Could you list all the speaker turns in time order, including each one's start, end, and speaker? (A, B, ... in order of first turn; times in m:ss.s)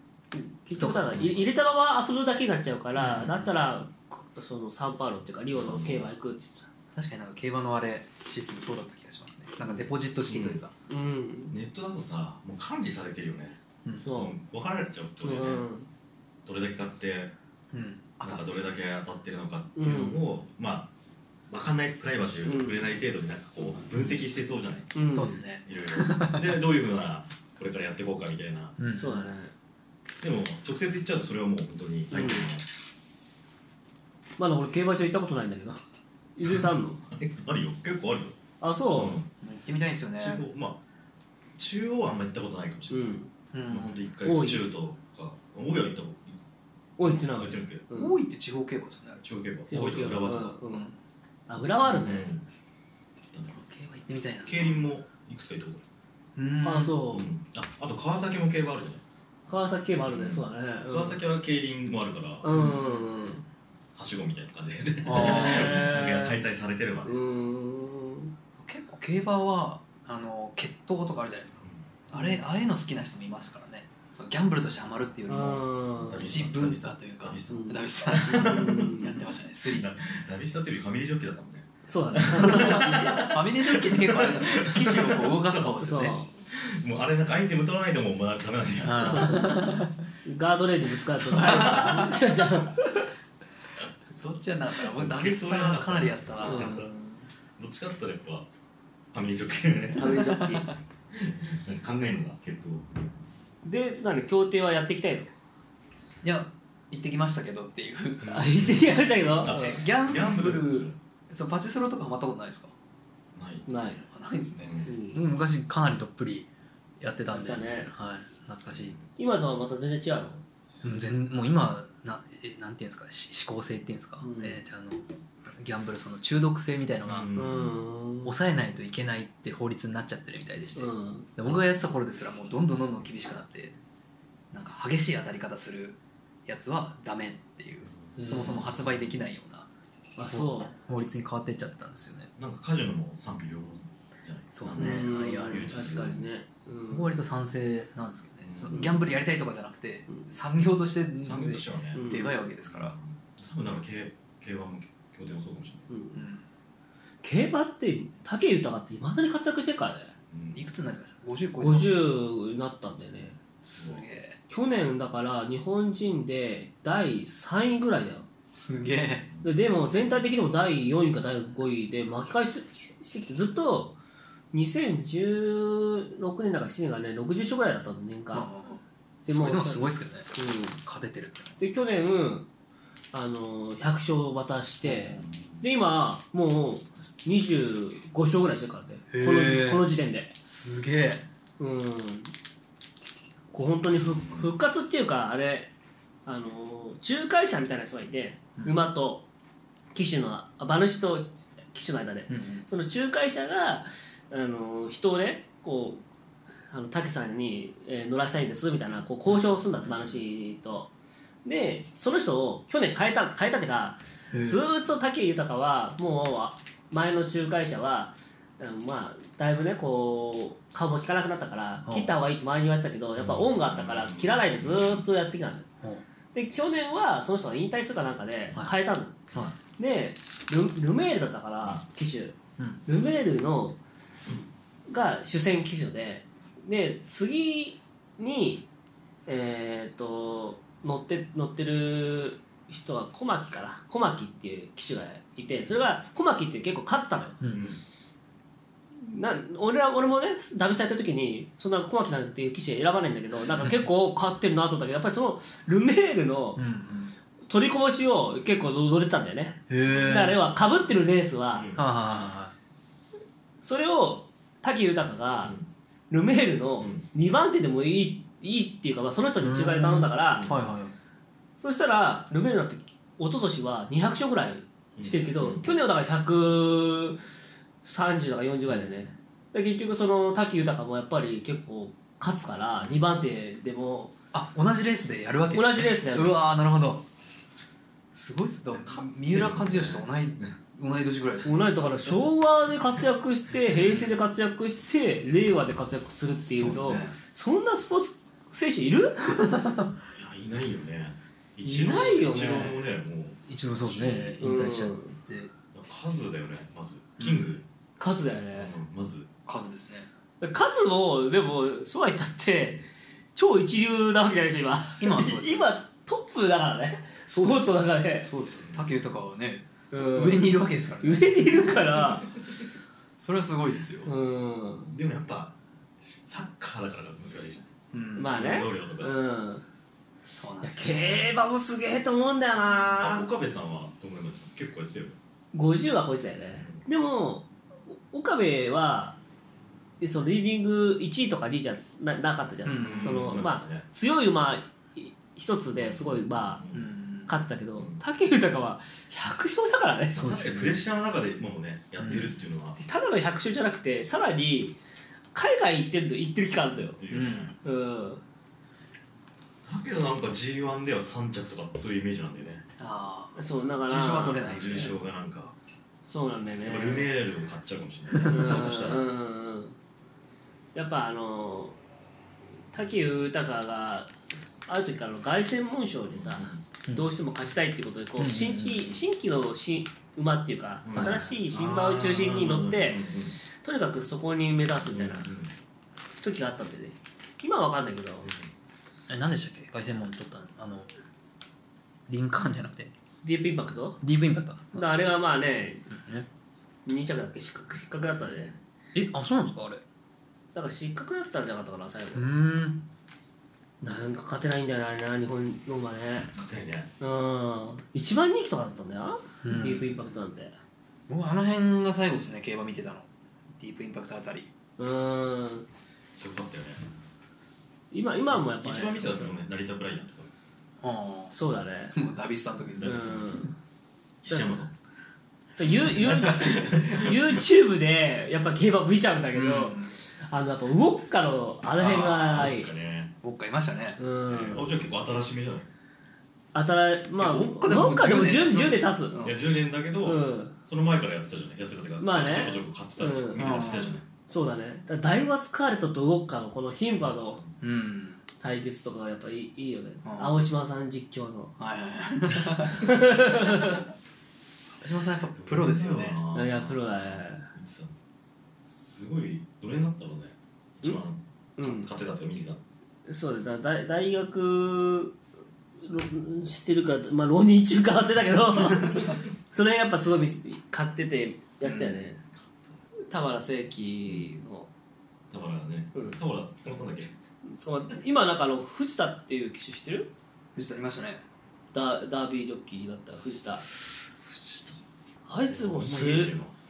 0:00.3-0:06.7 A
0:00.8-0:01.4 B
0:03.0-0:03.5 B
0:05.5-0:06.1 C
0:06.9-0:10.7 B
0:10.3-0:11.5 A
0:11.5-0:15.6 C
0:14.0-0:14.3 A
0:15.2-0:15.9 A
0:16.4-0:17.3 C
0:17.7-0:18.4 B
0:18.2-0:20.9 C
0:19.8-0:20.2 A
0:21.5-0:24.9 C
0:22.4-0:22.9 A
0:24.9-0:25.4 A
0:25.1-0:26.5 B
0:25.6-0:28.8 C
0:28.8-0:29.3 B
0:29.0-0:29.5 A
0:30.2-0:32.6 C
0:32.1-0:32.5 A
0:34.4-0:35.8 A
0:36.4-0:37.0 A
0:36.5-0:38.4 C
0:38.6-0:39.2 A
0:38.9-0:39.3 C
0:39.4-0:40.4 B
0:40.2-0:40.8 C
0:41.6-0:46.4 C
0:42.9-0:43.3 A
0:43.5-0:44.0 B
0:44.2-0:44.6 A
0:47.0-0:48.2 A
0:47.0-0:47.8 C
0:47.9-0:49.2 B
0:49.2-0:50.6 C
0:49.7-0:50.9 A
0:50.7-0:51.0 B
0:51.5-0:52.2 A
0:51.8-0:52.4 C
0:53.3-0:53.6 C
0:53.5-0:54.8 B
0:54.4-0:55.8 C
0:56.4-0:57.0 B
0:56.6-0:57.3 A
0:57.1-0:59.0 C
0:59.5-1:01.2 A
1:00.0-1:02.5 C
1:02.4-1:03.4 A
1:02.5-1:03.1 B
1:04.0-1:07.2 C
1:05.0-1:05.9 B
1:05.1-1:06.4 A
1:07.0-1:08.3 A
1:08.6-1:15.6 B
1:11.6-1:12.3 C
1:15.3-1:16.2 A
1:16.0-1:19.0 C
1:16.2-1:19.9 B
1:17.5-1:19.2 A
1:19.6-1:25.7 C
1:21.9-1:23.2 A
1:22.4-1:26.2 B
1:25.8-1:26.3 A
1:26.5-1:29.5 C
1:28.8-1:30.0 B
1:29.0-1:33.1 A
1:31.2-1:32.1 C
1:31.3-1:32.2 B
1:34.1-1:36.7 B
1:34.8-1:36.9 C
1:36.4-1:37.2 A
1:37.6-1:38.5 C
1:39.1-1:40.2 C
1:40.0-1:40.7 A
1:40.1-1:40.7 B
1:41.1-1:43.1 C
1:43.6-1:45.3 A
1:46.2-1:48.4 B
1:48.2-1:51.0 C
1:48.3-1:49.8 A
1:49.4-1:52.7 B
1:53.4-1:53.7 C
1:53.7-1:54.0 A
1:54.1-1:56.5 B
1:54.6-1:54.9 C
1:54.8-1:55.2 A
1:57.0-1:58.9 B
1:57.3-1:57.9 A
1:58.7-1:59.1 C
1:59.2-2:00.4 A
2:00.8-2:07.3 B
2:04.2-2:04.6 A
2:07.0-2:07.8 C
2:07.4-2:08.3 A
2:08.2-2:13.7 B
2:10.7-2:11.3 A
2:14.5-2:19.7 B
2:17.8-2:18.2 C
2:18.2-2:18.7 A
2:18.7-2:19.1 C
2:20.2-2:20.7 A
2:20.2-2:22.3 B
2:22.4-2:26.2 C
2:24.5-2:25.7 B
2:24.7-2:27.1 A
2:26.9-2:32.9 B
2:28.4-2:29.1 C
2:31.2-2:32.0 C
2:31.9-2:32.3 A
2:32.6-2:35.9 C
2:35.9-2:36.2 A
2:36.1-2:36.4 B
2:37.2-2:40.1 A
2:40.3-2:40.6 C
2:40.5-2:42.0 B
2:41.6-2:43.4 A
2:43.6-2:44.4 B
2:43.8-2:44.0 C
2:44.5-2:48.3 A
2:48.6-2:49.3 B
2:49.4-2:54.0 A
2:54.5-2:58.5 A
2:58.3-3:01.6 B
2:59.2-3:00.8 A
3:01.6-3:02.5 A
3:03.1-3:10.3 A
3:04.8-3:05.2 B
3:05.2-3:05.6 C
3:09.1-3:09.9 B
3:10.4-3:11.2 B
3:11.6-3:12.3 A
3:13.5-3:15.7 A
3:14.0-3:14.5 C
3:16.2-3:19.2 A
3:19.9-3:26.0 A
3:22.3-3:22.7 B
3:26.7-3:30.9 A
3:29.8-3:30.1 C
3:31.4-3:45.7 A
3:34.3-3:34.6 B
3:41.8-3:42.1 B
3:43.2-3:45.0 C
3:46.3-3:49.2 A
3:49.8-3:53.8 A
3:54.9-3:58.7 A
3:59.2-4:07.4 A
4:07.4-4:07.6 B
4:07.4-4:07.8 C
4:09.0-4:16.6 A
4:16.6-4:17.1 B
4:17.5-4:21.6 A
4:19.7-4:20.4 B
4:19.8-4:20.4 C
4:21.5-4:21.8 C
4:21.7-4:22.5 B
4:23.6-4:25.5 A
4:25.4-4:25.7 C
4:26.1-4:30.5 A
4:26.8-4:27.0 C
4:29.4-4:30.9 B
4:30.3-4:30.6 C
4:31.6-4:37.2 A
4:35.0-4:35.7 C
4:37.8-4:44.1 A
4:44.3-4:47.0 B
4:45.5-4:46.4 A
4:48.1-4:52.2 B
4:49.3-4:50.5 C
4:51.4-4:59.6 A
4:56.5-4:57.2 B
4:59.4-4:59.8 B
5:00.1-5:04.4 C
5:01.6-5:02.8 A
5:03.5-5:05.5 B
5:04.4-5:05.2 A
5:05.7-5:07.6 C
5:07.2-5:07.5 B
5:08.0-5:08.7 A
5:08.5-5:09.3 C
5:09.4-5:10.1 B
5:10.4-5:12.8 A
5:13.4-5:18.3 A
5:15.0-5:15.6 B
5:17.3-5:17.7 B
5:18.2-5:21.8 B
5:18.5-5:18.8 C
5:19.9-5:20.5 A
5:21.0-5:22.3 A
5:23.2-5:24.1 B
5:24.0-5:24.9 A
5:24.9-5:27.7 C
5:27.9-5:28.3 B
5:28.2-5:29.6 A
5:28.3-5:29.1 C
5:30.3-5:31.3 B
5:30.6-5:33.2 A
5:32.7-5:35.2 C
5:35.5-5:39.2 A
5:36.5-5:36.8 C
5:40.0-5:46.6 A
5:42.6-5:43.3 B
5:42.8-5:43.8 C
5:45.8-5:46.8 C
5:46.7-5:47.3 B
5:47.3-5:50.4 A
5:50.1-5:50.8 B
5:50.1-5:52.8 C
5:52.0-5:52.3 B
5:52.8-5:54.8 A
5:55.3-5:57.0 A
5:56.8-5:57.5 C
5:57.1-5:57.5 B
5:57.6-5:58.2 A
5:59.6-6:02.6 C
6:02.8-6:04.9 B
6:03.4-6:04.9 A
6:04.4-6:05.5 C
6:06.1-6:07.1 A
6:06.6-6:09.0 C
6:08.3-6:09.8 A
6:10.7-6:11.8 A
6:12.7-6:14.1 A
6:14.6-6:25.3 A
6:16.1-6:16.6 C
6:18.2-6:18.9 B
6:20.8-6:23.4 C
6:20.9-6:21.2 B
6:24.8-6:25.5 C
6:26.2-6:28.3 A
6:28.2-6:28.5 C
6:29.1-6:30.9 B
6:32.1-6:32.9 B
6:33.2-6:34.0 A
6:34.0-6:34.9 B
6:34.7-6:35.9 A
6:35.9-6:36.3 B
6:36.8-6:38.6 A
6:38.9-6:39.8 B
6:40.5-6:42.3 A
6:42.1-6:42.8 B
6:43.8-6:46.3 A
6:46.3-6:46.9 C
6:47.0-6:50.6 A
6:49.4-6:49.9 B
6:51.1-6:54.5 B
6:54.8-6:55.7 A
6:56.1-6:56.8 C
6:57.9-6:59.3 A
6:58.3-7:00.3 C
7:00.8-7:01.3 B
7:01.3-7:01.9 A
7:01.9-7:03.0 B
7:02.8-7:03.5 C
7:02.8-7:03.5 A
7:04.2-7:04.7 C
7:04.3-7:04.5 A
7:05.6-7:12.7 A
7:05.8-7:07.4 C
7:06.0-7:07.1 B
7:09.3-7:09.9 B
7:11.8-7:12.4 B
7:11.8-7:13.1 C
7:13.2-7:14.0 B
7:14.0-7:14.6 A
7:14.3-7:15.7 C
7:16.5-7:19.1 A
7:17.2-7:19.4 B
7:19.2-7:24.0 C
7:20.0-7:20.6 A
7:22.0-7:23.4 A
7:23.4-7:24.0 B
7:24.3-7:27.4 A
7:27.0-7:27.5 C
7:27.6-7:28.2 B
7:28.4-7:31.5 A
7:30.0-7:30.4 B
7:31.6-7:32.8 B
7:32.7-7:33.8 A
7:34.8-7:36.2 B
7:35.2-7:37.9 C
7:36.3-7:37.5 A
7:38.6-7:42.6 C
7:41.6-7:41.9 A
7:43.0-7:45.2 A
7:45.8-7:52.2 A
7:48.7-7:49.2 C
7:52.3-7:52.8 C
7:53.1-7:54.7 A
7:55.3-7:57.2 C
7:57.4-8:00.1 A
8:00.5-8:01.2 B
8:01.7-8:03.6 A
8:03.6-8:04.8 C
8:05.2-8:06.4 A
8:05.4-8:06.5 C